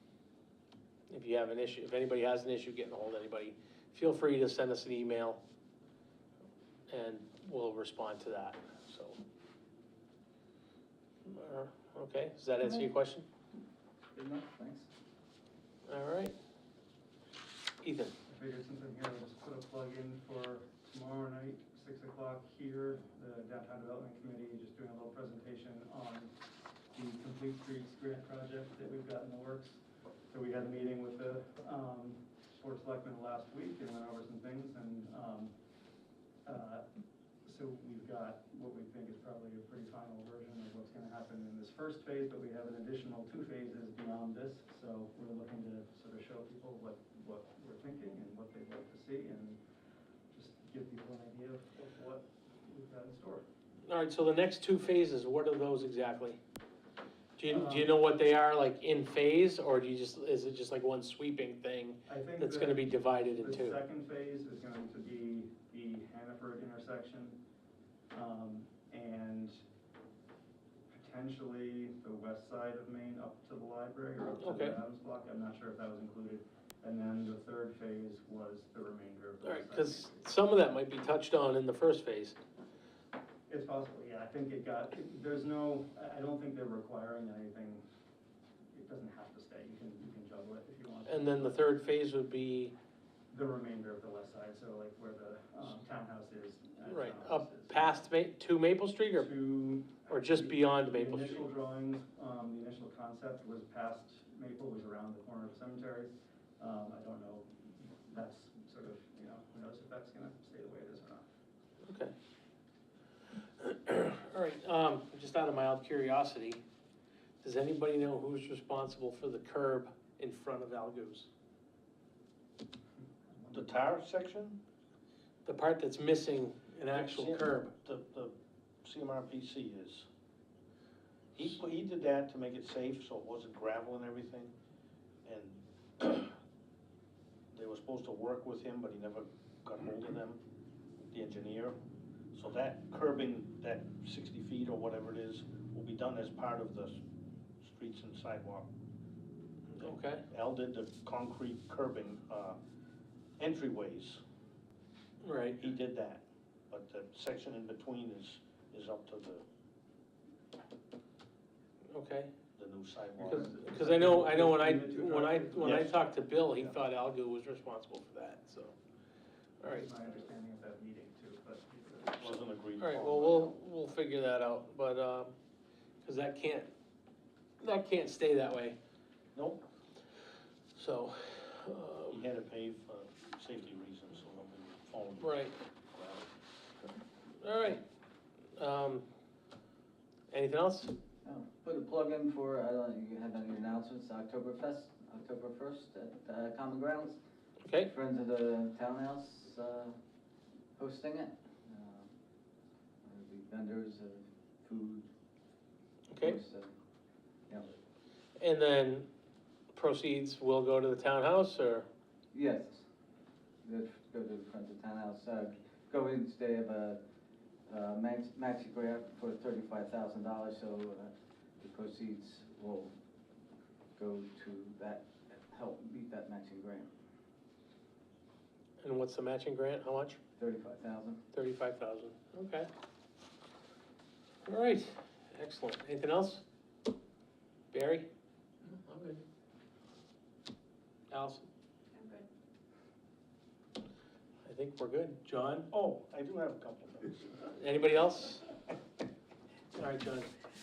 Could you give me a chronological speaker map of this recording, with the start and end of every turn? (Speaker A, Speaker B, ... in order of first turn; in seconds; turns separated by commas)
Speaker A: 1.1-5.4, Speaker A: 6.9-9.2, Speaker A: 11.2-13.2, Speaker B: 14.1-14.9, Speaker A: 15.9-16.3, Speaker A: 17.8-18.1, Speaker C: 18.3-26.3, Speaker C: 26.9-35.5, Speaker C: 36.4-36.9, Speaker C: 37.4-49.6, Speaker C: 50.3-53.5, Speaker A: 53.9-56.4, Speaker A: 57.4-63.8, Speaker C: 57.5-57.9, Speaker C: 62.1-67.4, Speaker C: 68.1-69.6, Speaker C: 70.9-80.2, Speaker A: 74.4-74.8, Speaker A: 79.4-82.4, Speaker C: 83.5-87.8, Speaker C: 88.7-91.7, Speaker A: 91.1-92.7, Speaker C: 93.3-98.0, Speaker A: 96.9-99.3, Speaker C: 99.2-111.2, Speaker A: 100.1-101.5, Speaker A: 111.8-112.1, Speaker A: 113.6-116.6, Speaker A: 117.4-121.3, Speaker C: 123.3-123.8, Speaker D: 123.5-124.6, Speaker A: 125.4-127.7, Speaker D: 126.9-128.3, Speaker D: 128.8-130.1, Speaker D: 131.3-134.5, Speaker D: 135.2-136.4, Speaker D: 137.5-140.4, Speaker D: 141.1-141.8, Speaker D: 142.3-147.0, Speaker D: 147.6-148.7, Speaker A: 149.8-150.2, Speaker D: 150.3-152.6, Speaker D: 153.4-154.2, Speaker A: 155.2-155.6, Speaker D: 155.6-159.4, Speaker A: 161.9-162.3, Speaker D: 162.6-163.5, Speaker A: 163.2-168.8, Speaker C: 163.2-165.9, Speaker D: 165.6-166.7, Speaker A: 169.6-169.9, Speaker C: 169.6-172.4, Speaker D: 172.2-173.6, Speaker A: 172.8-175.3, Speaker A: 176.0-176.7, Speaker A: 177.6-178.8, Speaker D: 179.3-179.6, Speaker A: 180.7-182.2, Speaker D: 182.1-185.4, Speaker A: 185.2-185.5, Speaker D: 185.9-186.3, Speaker A: 187.4-187.8, Speaker A: 188.5-189.1, Speaker A: 190.3-190.9, Speaker B: 191.2-197.2, Speaker A: 197.6-197.9, Speaker B: 197.8-199.9, Speaker B: 200.8-202.1, Speaker B: 203.0-205.1, Speaker A: 206.1-206.4, Speaker B: 206.2-206.7, Speaker A: 208.4-209.1, Speaker A: 209.7-211.9, Speaker B: 212.3-212.8, Speaker B: 213.6-217.0, Speaker B: 217.7-222.9, Speaker B: 223.9-226.9, Speaker A: 228.8-230.2, Speaker B: 230.4-231.2, Speaker A: 231.3-232.7, Speaker A: 234.4-236.4, Speaker A: 237.7-238.1, Speaker A: 238.7-239.2, Speaker A: 241.1-241.5, Speaker A: 244.4-245.7, Speaker D: 245.7-247.3, Speaker A: 247.4-248.5, Speaker A: 249.7-250.3